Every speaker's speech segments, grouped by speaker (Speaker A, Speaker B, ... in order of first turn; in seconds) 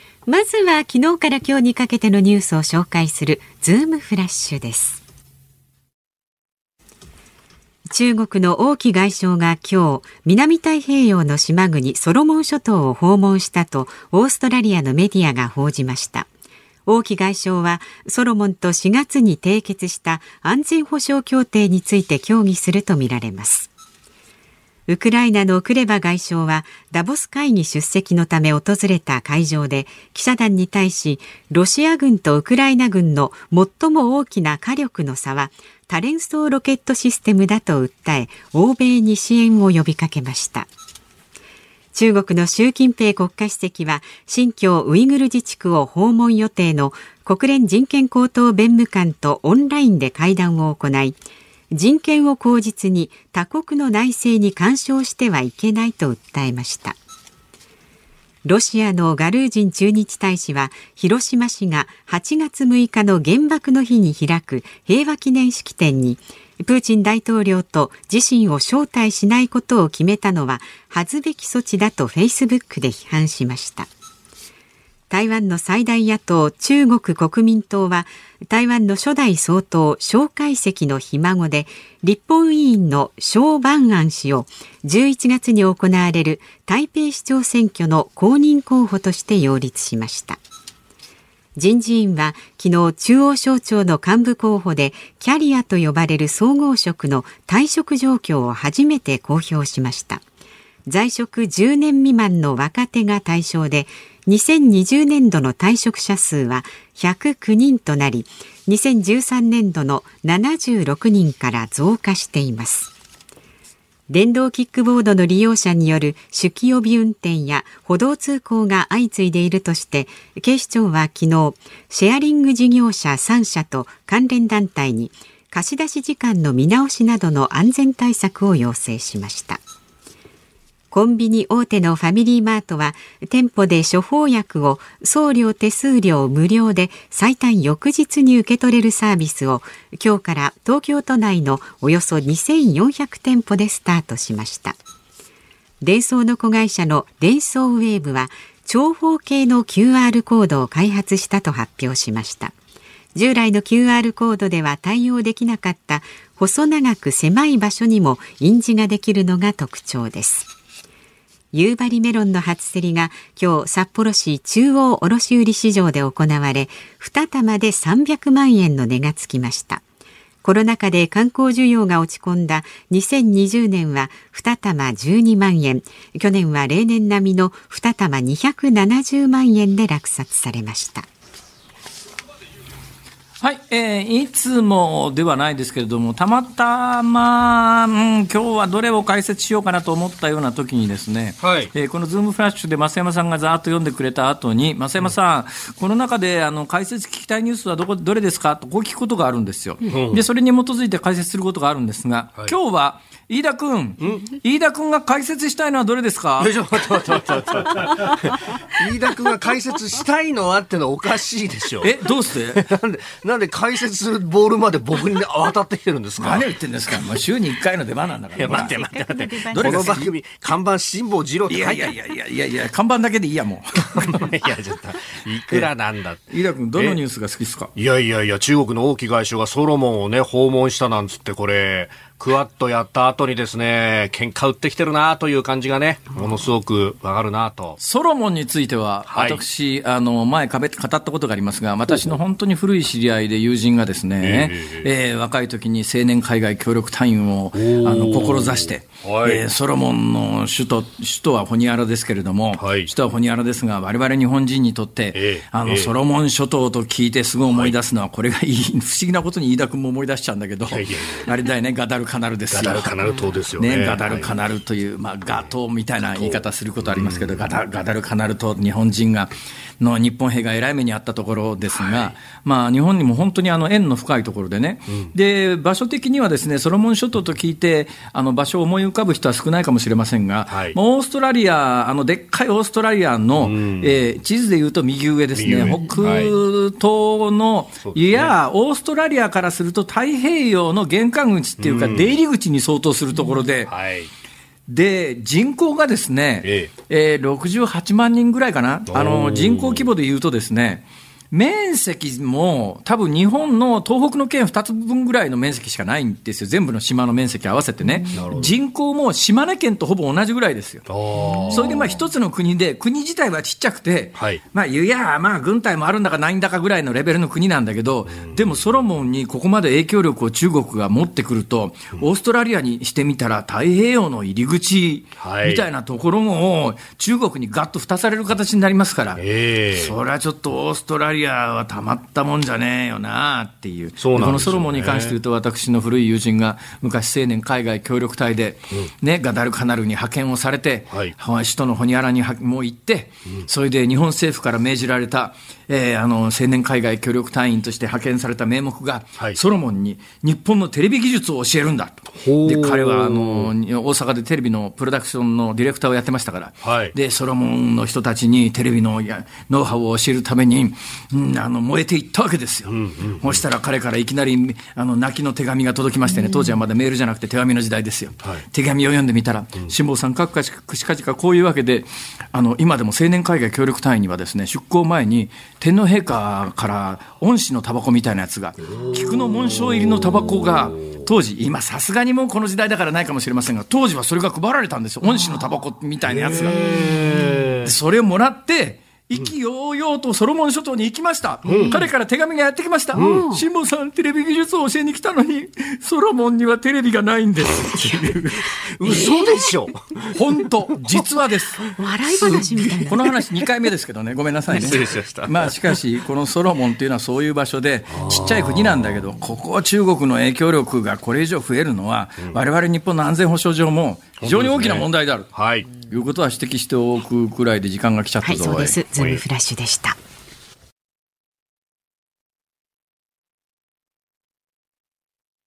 Speaker A: 0.3-5.0, 7.9-16.3, 16.9-23.7, 24.9-40.7, 41.9-51.2, 51.7-57.0, 58.5-73.9, 75.1-90.4, 91.5-100.2, 100.8-112.9, 114.1-129.6, 130.9-144.8, 145.8-152.5, 153.1-160.5, 161.5-169.8, 170.4-181.1, 218.4-220.0, 263.0-263.3, 285.8-286.1, 307.8-308.1, 366.1-366.6, 386.4-387.5, 391.4-391.9, 392.9-393.4, 398.8-399.5, 401.7-403.1, 418.2-420.0
Speaker B: 183.4-206.5, 211.8-212.6, 216.2-220.1, 221.5-224.3, 226.3-227.7, 237.8-263.0, 263.6-293.7, 294.7-310.9, 311.5-386.6, 387.6-398.6, 400.1-401.6, 402.8-418.8
Speaker C: 191.4-191.7, 199.9-200.2, 206.4-211.9, 212.5-216.5, 218.3-221.9, 223.8-227.0, 227.8-237.8, 239.1-239.4, 244.2-244.9, 247.5-249.4, 252.6-252.9, 255.1-255.9, 260.7-261.3, 262.5-264.3, 266.1-267.5, 271.8-272.1, 280.5-280.8, 283.4-283.9, 285.3-286.3, 287.8-288.3, 291.6-292.1, 293.7-294.1, 296.4-296.7, 298.9-299.9, 308.1-308.5, 310.9-312.0, 314.2-314.4, 325.2-325.6, 329.2-329.9, 334.0-335.2, 352.1-353.5, 356.6-356.9, 362.7-363.4, 378.7-380.5, 386.1-387.7, 391.4-391.9, 392.9-393.3, 398.5-400.2, 402.1-402.9, 404.5-405.8, 407.9-409.0, 414.2-415.7, 419.0-419.2